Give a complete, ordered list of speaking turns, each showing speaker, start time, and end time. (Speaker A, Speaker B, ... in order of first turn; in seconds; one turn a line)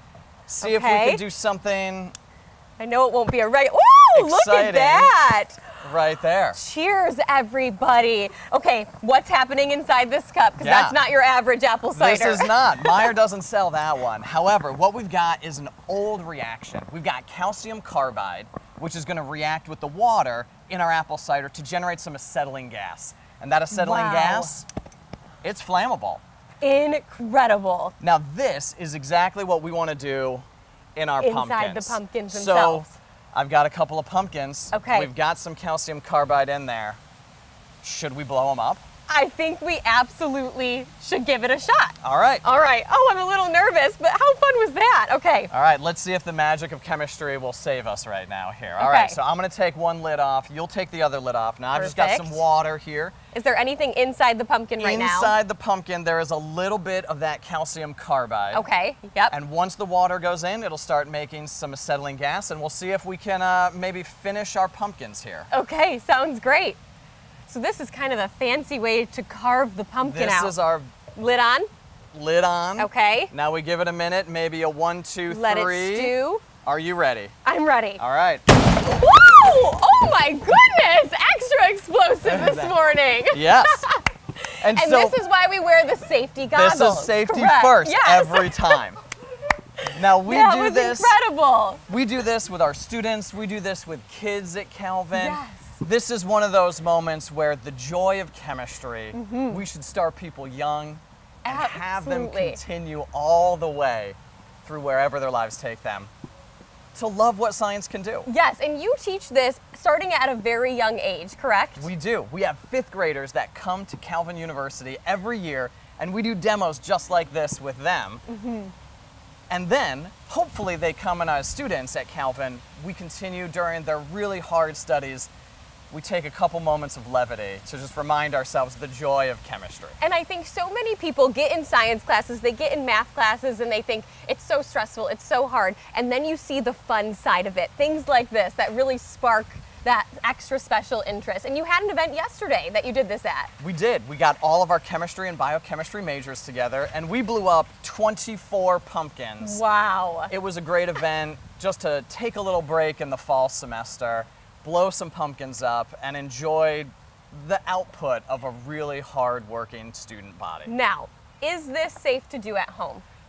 Speaker A: 0.5-2.1
Speaker B: 0.6-1.2
Speaker B: 2.8-5.6
Speaker A: 4.1-5.2
Speaker A: 5.8-6.6
Speaker B: 6.5-13.1
Speaker A: 10.6-11.0
Speaker A: 11.9-24.6
Speaker B: 23.7-24.6
Speaker A: 25.4-26.2
Speaker B: 26.6-27.9
Speaker A: 28.0-30.4
Speaker A: 30.9-37.0
Speaker B: 31.2-33.0
Speaker B: 34.7-35.1
Speaker A: 37.8-38.8
Speaker B: 39.1-45.5
Speaker A: 42.0-42.4
Speaker A: 45.5-53.1
Speaker B: 48.8-49.2
Speaker B: 51.7-52.4
Speaker B: 53.3-55.4
Speaker A: 54.8-58.6
Speaker B: 58.5-59.3
Speaker A: 59.3-65.5
Speaker B: 65.5-66.8
Speaker B: 67.5-70.5
Speaker A: 70.0-70.9
Speaker B: 71.1-71.7
Speaker A: 72.1-77.3
Speaker B: 72.8-73.3
Speaker B: 75.3-76.5
Speaker B: 77.4-78.0
Speaker A: 78.0-78.4
Speaker B: 78.8-88.8
Speaker A: 82.2-82.8
Speaker A: 83.3-83.9
Speaker A: 84.6-85.2
Speaker A: 86.4-89.0
Speaker B: 89.8-91.8
Speaker A: 89.9-91.1
Speaker A: 91.9-106.1
Speaker B: 95.1-95.8
Speaker B: 99.1-99.6
Speaker B: 101.4-102.6
Speaker A: 106.9-108.3
Speaker B: 108.2-111.9
Speaker A: 111.8-118.2
Speaker B: 118.3-118.7
Speaker A: 119.5-125.3
Speaker A: 125.9-130.0
Speaker B: 130.0-143.5
Speaker A: 143.6-149.6
Speaker B: 149.4-150.3
Speaker A: 150.3-160.7
Speaker B: 160.7-163.0